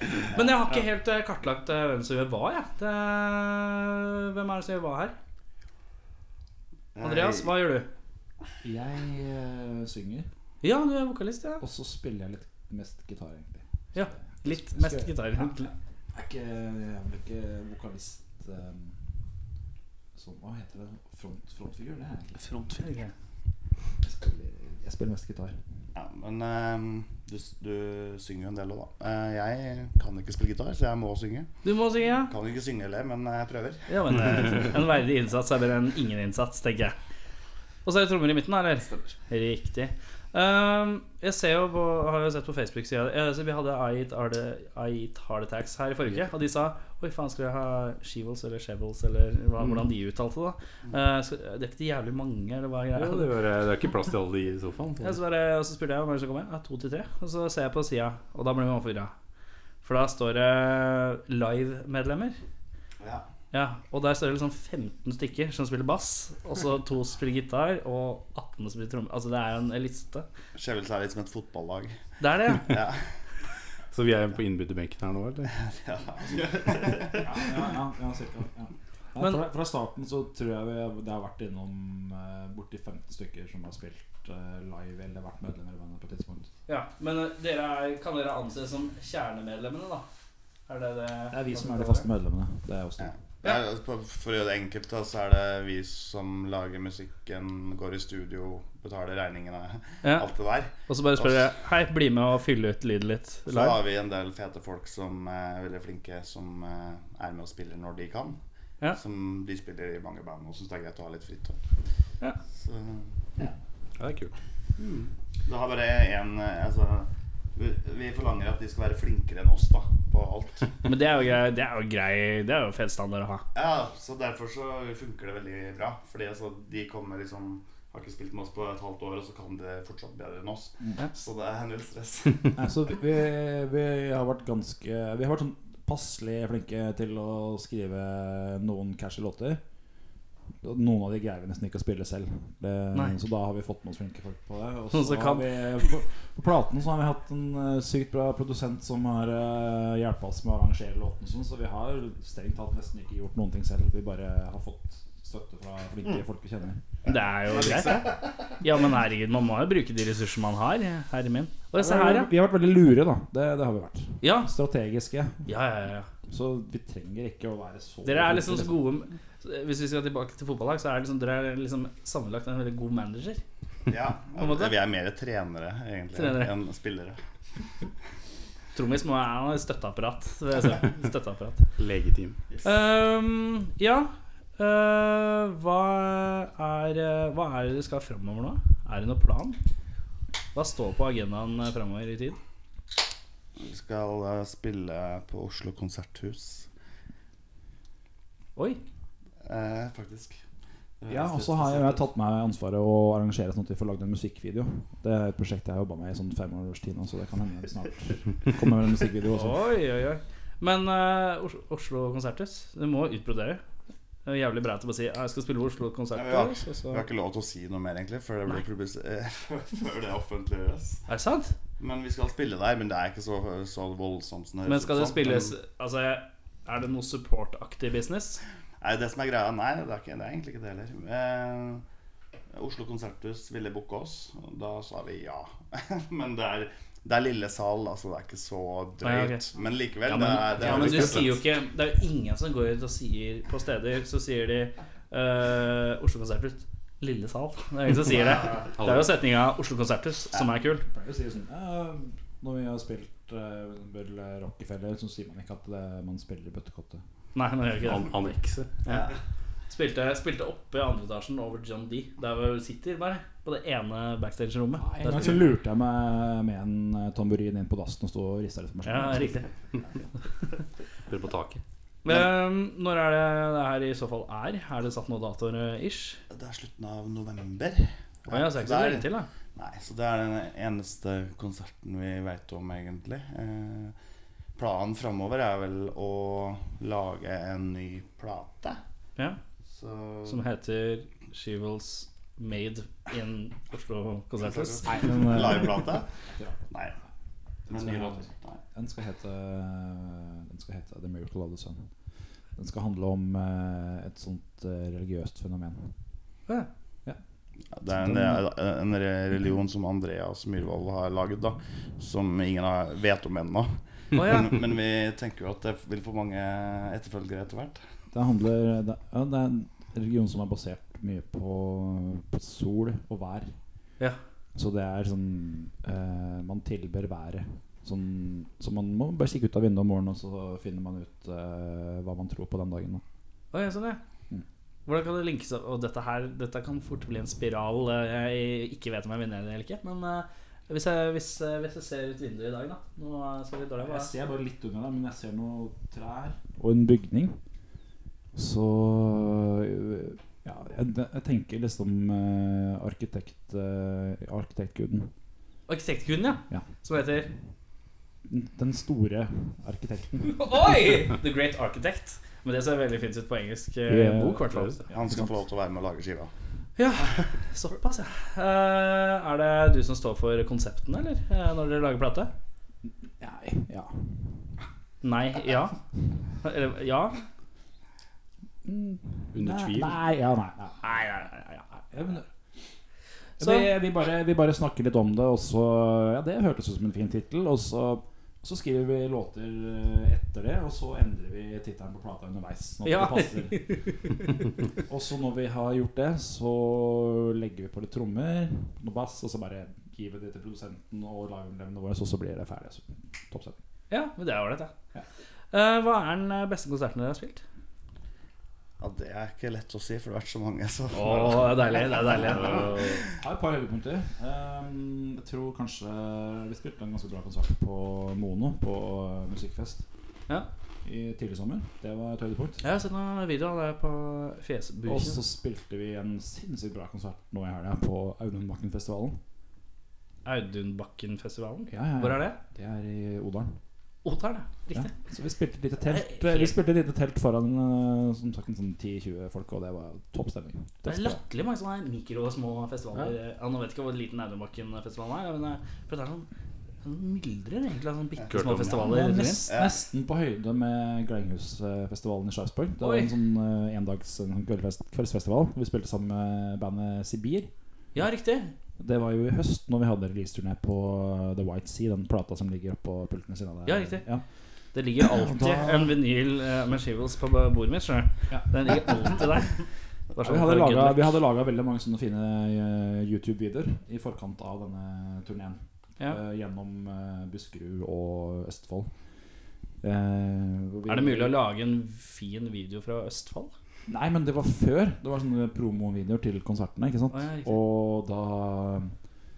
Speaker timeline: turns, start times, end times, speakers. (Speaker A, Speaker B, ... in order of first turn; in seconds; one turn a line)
Speaker A: 0.3-5.2
Speaker B: 7.0-7.5
Speaker A: 7.0-7.9
Speaker C: 8.6-10.3
Speaker A: 10.6-11.6
Speaker C: 11.6-19.0
Speaker A: 13.9-15.7
Speaker C: 20.1-22.4
Speaker D: 22.4-23.0
Speaker A: 22.8-23.1
Speaker C: 24.0-25.6
Speaker B: 25.9-31.5
Speaker A: 31.6-32.3
Speaker B: 32.3-34.6
Speaker A: 33.9-37.0
Speaker A: 37.9-53.3
Speaker D: 38.8-39.2
Speaker E: 49.6-49.9
Speaker E: 53.0-55.2
Speaker A: 55.0-59.1
Speaker A: 59.8-62.4
Speaker B: 63.0-63.3
Speaker A: 63.5-70.3
Speaker B: 70.5-72.0
Speaker A: 72.2-72.8
Speaker B: 72.6-73.1
Speaker E: 73.9-75.5
Speaker B: 75.6-77.3
Speaker C: 77.2-86.5
Speaker A: 86.7-90.1
Speaker A: 90.7-92.1
Speaker C: 91.3-93.2
Speaker B: 93.0-101.5
Speaker A: 100.0-100.3
Speaker A: 100.8-103.8
Speaker B: 103.5-108.4
Speaker B: 108.9-111.6
Speaker B: 112.5-113.2
Speaker E: 114.0-114.3
Speaker B: 114.8-120.8
Speaker A: 120.8-123.5
Speaker B: 123.5-132.5
Speaker C: 132.6-139.6
Speaker C: 140.6-156.8
Speaker A: 144.9-145.5
Speaker A: 157.1-162.3
Speaker D: 157.4-158.2
Speaker C: 161.8-165.5
Speaker A: 164.2-164.5
Speaker A: 165.5-166.1
Speaker C: 166.3-168.8
Speaker A: 168.1-173.4
Speaker B: 173.9-177.2
Speaker A: 174.4-174.7
Speaker A: 176.2-176.5
Speaker A: 178.7-181.7
Speaker E: 181.8-182.4
Speaker D: 182.5-182.8
Speaker A: 182.6-189.6
Speaker A: 190.5-192.4
Speaker B: 193.6-196.7
Speaker B: 199.4-200.4
Speaker B: 201.0-202.1
Speaker C: 201.1-209.6
Speaker A: 209.3-213.6
Speaker A: 214.2-217.1
Speaker B: 216.1-221.1
Speaker A: 221.1-221.6
Speaker B: 221.8-225.5
Speaker A: 224.7-228.4
Speaker B: 228.8-231.8
Speaker B: 232.5-241.4
Speaker A: 239.0-239.4
Speaker A: 240.1-250.8
Speaker E: 240.6-241.3
Speaker E: 248.8-249.1
Speaker C: 250.8-257.0
Speaker A: 257.4-258.2
Speaker E: 257.8-258.7
Speaker A: 258.8-259.1
Speaker B: 258.9-259.1
Speaker A: 259.7-265.4
Speaker C: 264.8-269.5
Speaker A: 268.9-269.5
Speaker E: 271.1-271.6
Speaker A: 272.0-276.2
Speaker B: 276.3-284.0
Speaker A: 278.3-279.3
Speaker B: 284.6-288.8
Speaker B: 289.7-290.5
Speaker A: 290.3-295.1
Speaker B: 294.4-296.1
Speaker C: 294.9-296.7
Speaker B: 296.7-297.0
Speaker B: 297.7-298.6
Speaker C: 297.7-301.9
Speaker C: 302.6-305.9
Speaker B: 307.7-317.8
Speaker C: 307.9-308.4
Speaker A: 314.1-314.6
Speaker C: 318.1-323.6
Speaker C: 324.6-333.0
Speaker A: 333.5-334.0
Speaker A: 334.9-344.1
Speaker C: 343.8-347.4
Speaker C: 348.4-355.1
Speaker A: 355.7-357.3
Speaker C: 358.3-360.4
Speaker A: 360.2-364.8
Speaker C: 363.9-365.3
Speaker E: 364.5-364.8
Speaker B: 364.9-366.3
Speaker A: 366.8-372.3
Speaker C: 372.8-374.5
Speaker A: 375.0-375.8
Speaker A: 376.4-377.2
Speaker C: 378.6-381.0
Speaker E: 379.3-380.0
Speaker A: 380.8-381.8
Speaker C: 381.9-382.3
Speaker A: 383.4-383.7
Speaker C: 383.4-393.7
Speaker A: 392.8-394.3
Speaker C: 394.8-403.6
Speaker A: 403.9-404.7
Speaker A: 405.5-407.4
Speaker B: 408.8-413.1
Speaker A: 410.9-412.8
Speaker E: 412.3-413.0
Speaker C: 413.1-419.9
Speaker C: 420.9-422.6
Speaker A: 422.6-425.2
Speaker C: 424.9-429.2
Speaker A: 430.2-432.4
Speaker C: 431.7-433.6
Speaker A: 434.1-434.9
Speaker C: 434.7-441.2
Speaker A: 435.9-436.6
Speaker A: 440.9-446.3
Speaker A: 446.8-449.4
Speaker E: 448.3-448.8
Speaker C: 448.7-457.5
Speaker B: 449.5-449.8
Speaker A: 452.8-453.1
Speaker A: 457.9-458.5
Speaker C: 458.8-464.2
Speaker A: 463.7-464.1
Speaker A: 464.7-469.6
Speaker C: 465.0-466.0
Speaker C: 468.3-469.2
Speaker A: 470.1-471.2
Speaker C: 470.2-478.9
Speaker C: 479.8-481.3
Speaker A: 480.9-483.5
Speaker C: 483.9-488.9
Speaker A: 487.1-487.6